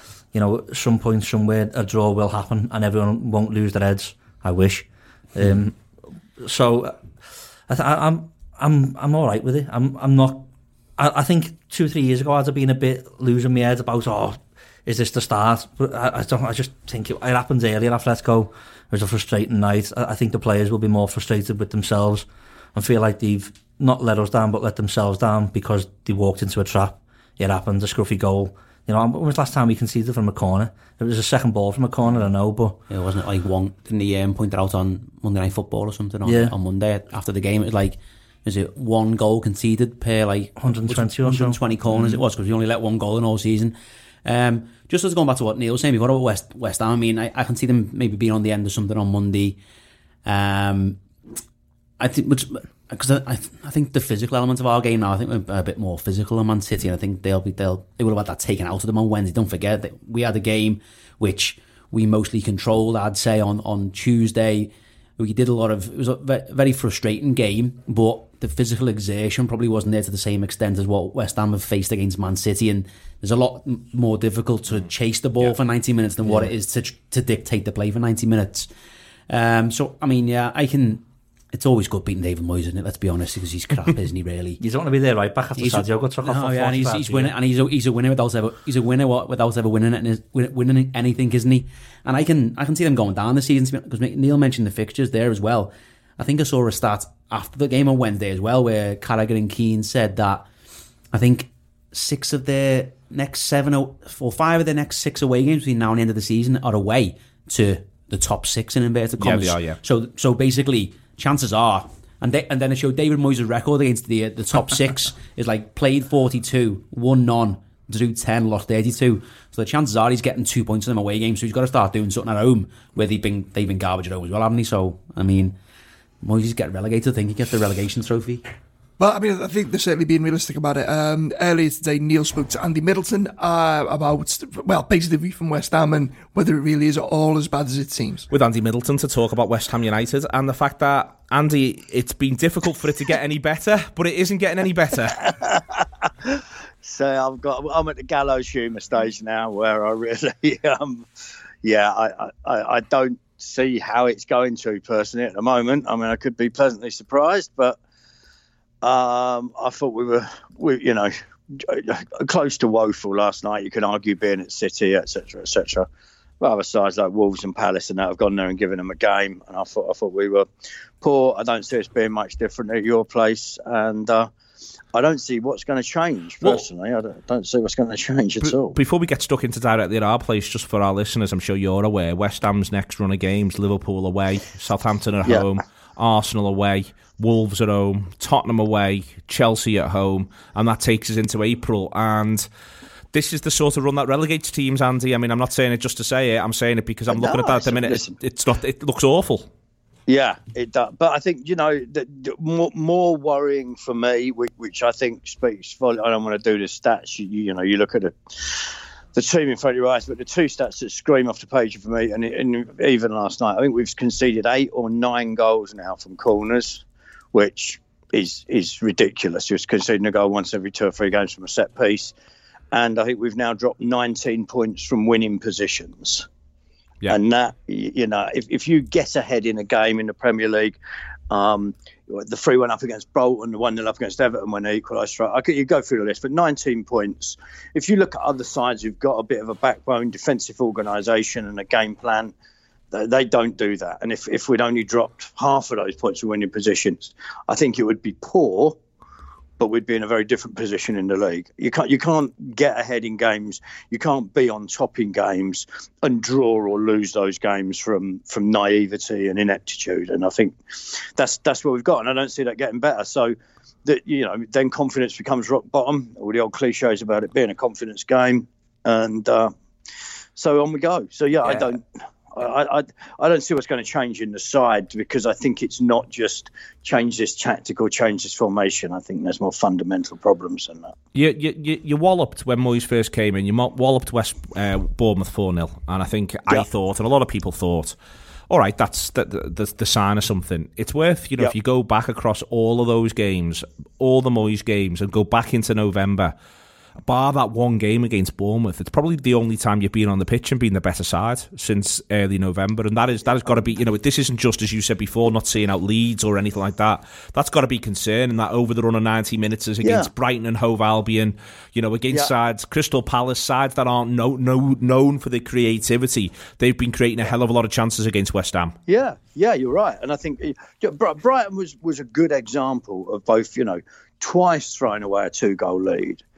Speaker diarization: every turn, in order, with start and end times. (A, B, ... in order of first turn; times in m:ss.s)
0:00.3-0:05.8 A
0:06.4-0:07.0 A
0:07.7-0:10.5 A
0:11.0-0:32.8 A
0:32.9-0:49.6 B
0:36.2-0:36.6 A
0:40.6-0:42.2 A
0:50.2-0:51.0 B
0:52.0-1:18.7 B
1:19.3-1:24.6 B
1:24.6-1:27.3 A
1:25.6-1:40.5 B
1:41.1-2:05.6 B
1:49.2-1:49.8 C
2:06.2-2:08.4 B
2:09.0-2:18.3 D
2:18.3-2:25.3 C
2:25.2-2:31.1 E
2:31.6-2:37.8 E
2:38.8-2:45.9 E
2:46.4-2:50.5 E
2:51.0-2:54.3 E
2:54.9-2:58.8 E
2:58.4-3:12.5 C
3:13.1-3:19.5 C
3:17.1-3:18.2 E
3:20.1-3:42.1 E
3:42.7-3:46.3 E
3:47.1-3:50.8 E
3:51.3-4:02.3 E
4:02.9-4:08.8 E
4:09.6-4:29.5 E
4:30.4-4:31.8 E
4:32.3-4:40.9 E
4:41.1-4:48.0 C
4:48.5-4:56.3 C
4:57.0-5:18.8 C
5:09.8-5:10.1 E
5:18.9-5:26.2 E